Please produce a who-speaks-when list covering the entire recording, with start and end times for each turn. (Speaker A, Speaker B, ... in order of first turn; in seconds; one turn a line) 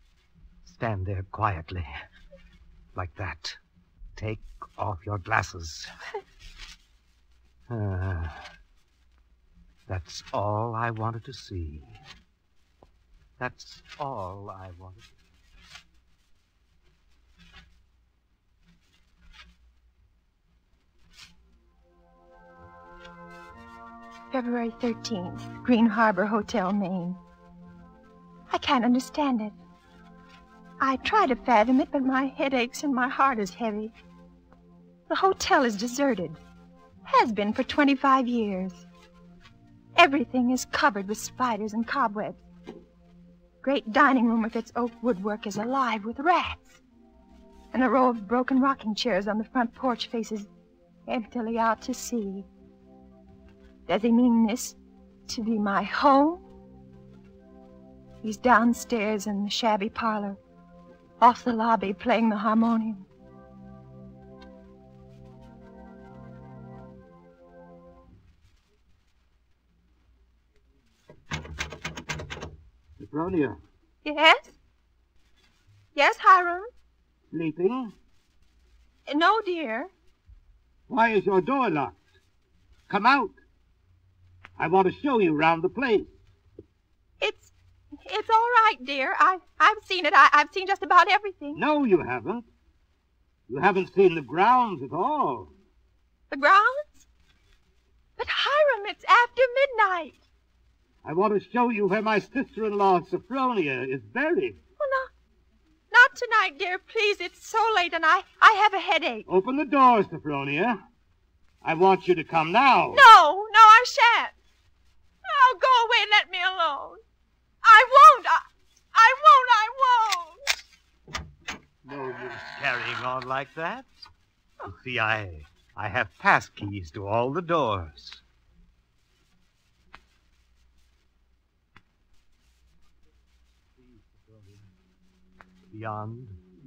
Speaker A: 0.6-2.0
Speaker A: 3.0-3.6
Speaker A: 4.2-5.9
Speaker A: 7.7-8.5
Speaker A: 9.9-12.0
Speaker A: 13.4-15.1
Speaker B: 24.3-27.2
Speaker B: 28.5-29.6
Speaker B: 30.8-34.0
Speaker B: 35.1-36.4
Speaker B: 37.0-38.9
Speaker B: 40.0-42.4
Speaker B: 43.6-46.8
Speaker B: 47.7-50.5
Speaker B: 51.1-52.5
Speaker B: 53.9-54.8
Speaker B: 55.3-56.4
Speaker B: 58.2-60.4
Speaker B: 61.2-63.1
Speaker A: 73.0-73.6
Speaker B: 74.0-74.5
Speaker B: 76.0-76.7
Speaker A: 77.3-77.9
Speaker B: 79.1-79.9
Speaker A: 80.9-82.0
Speaker A: 82.9-83.4
Speaker A: 84.6-86.1
Speaker B: 87.2-87.5
Speaker B: 88.0-91.6
Speaker A: 91.5-92.5
Speaker A: 93.5-95.5
Speaker B: 96.3-97.1
Speaker B: 98.2-100.2
Speaker A: 101.0-104.6
Speaker B: 104.8-105.1
Speaker B: 105.9-109.3
Speaker A: 109.3-110.8
Speaker A: 111.6-113.1
Speaker B: 112.9-114.3
Speaker B: 115.2-117.0
Speaker B: 117.6-120.6
Speaker A: 121.8-124.0
Speaker A: 124.6-128.2
Speaker A: 133.8-134.7
Speaker A: 135.7-136.4